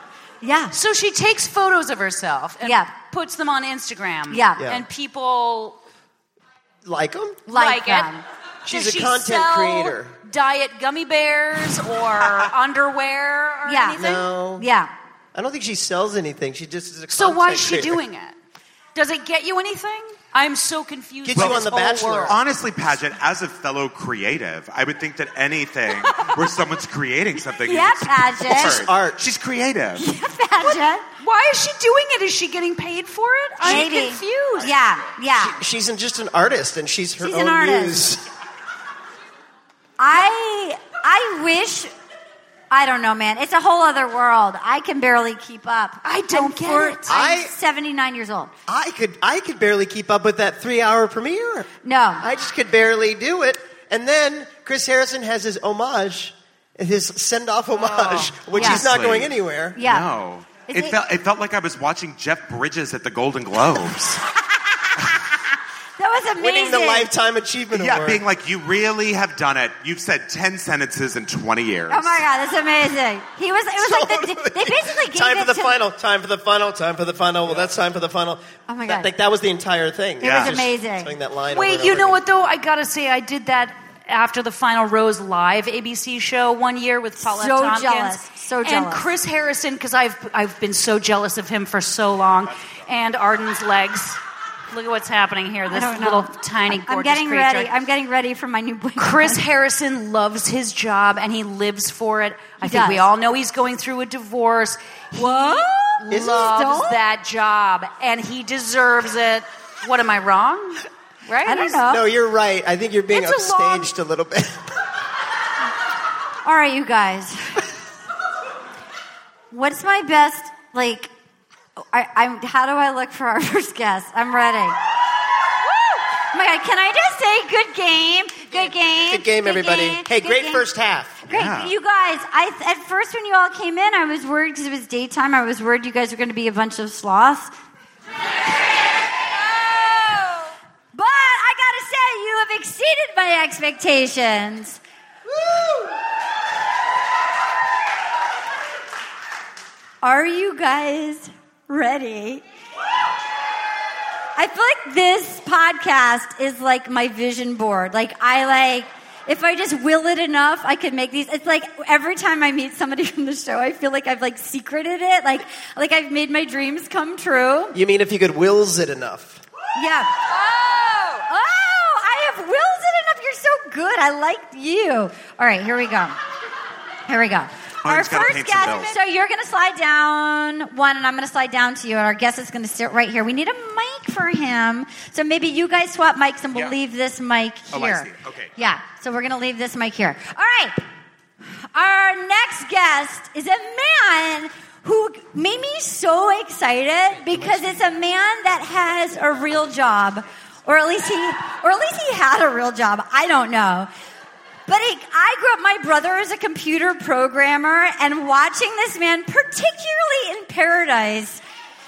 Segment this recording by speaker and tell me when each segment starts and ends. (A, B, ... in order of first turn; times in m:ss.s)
0:00.4-0:00.7 A
0:00.7-0:05.8 B
0:02.6-0:02.9 A
0:04.3-0:04.6 A
0:04.6-0:04.8 C
0:06.8-0:07.4 C
0:07.5-0:14.3 B
0:07.5-0:08.2 A
0:08.6-0:10.1 C
0:13.6-0:14.9 A
0:14.0-0:14.6 C
0:15.3-0:18.0 C
0:17.1-0:18.4 B
0:18.9-0:22.4 B
0:21.2-0:22.4 C
0:21.3-0:21.6 D
0:22.2-0:30.0 D
0:27.6-0:28.8 A
0:28.4-0:29.2 C
0:30.0-0:31.0 A
0:31.2-0:34.7 B
0:33.6-0:35.6 A
0:35.4-0:38.2 C
0:37.2-0:38.1 A
0:40.0-0:41.9 A
0:42.7-0:48.5 A
0:46.0-0:47.1 B
0:47.1-0:47.5 C
0:48.7-0:51.7 C
0:51.8-0:52.2 A
0:52.2-0:59.8 C
0:57.8-1:04.2 D
0:58.5-0:58.8 A
0:59.8-1:00.1 A
1:00.7-1:01.0 A
1:04.8-1:05.2 A
1:06.0-1:07.1 A
1:06.4-1:08.2 C
1:07.7-1:12.2 D
1:11.9-1:15.8 A
1:13.8-1:22.2 C
1:18.7-1:19.1 A
1:20.2-1:21.1 A
1:20.2-1:20.6 D
1:21.5-1:34.2 B
1:27.2-1:29.0 A
1:34.7-1:37.7 B
1:35.7-1:39.4 A
1:39.0-1:51.8 B
1:42.6-1:43.0 A
1:45.2-1:47.0 A
1:46.1-1:46.6 C
1:51.4-1:52.0 A
1:51.8-1:54.6 C
1:53.1-1:53.9 B
1:56.4-1:57.6 A
1:59.5-2:01.1 A
2:01.9-2:04.8 A
2:05.6-2:10.6 A
2:08.5-2:11.2 C
2:11.3-2:17.5 A
2:11.3-2:11.7 D
2:20.9-2:24.8 A
2:30.0-2:32.4 A
2:34.4-2:47.8 A
2:47.7-2:49.4 C
2:49.8-2:50.2 A
2:50.5-2:51.2 B
2:51.2-2:56.2 A
2:57.1-3:10.8 A
2:57.8-2:58.9 D
3:07.7-3:08.5 D
3:11.7-3:23.9 A
3:24.7-3:31.4 A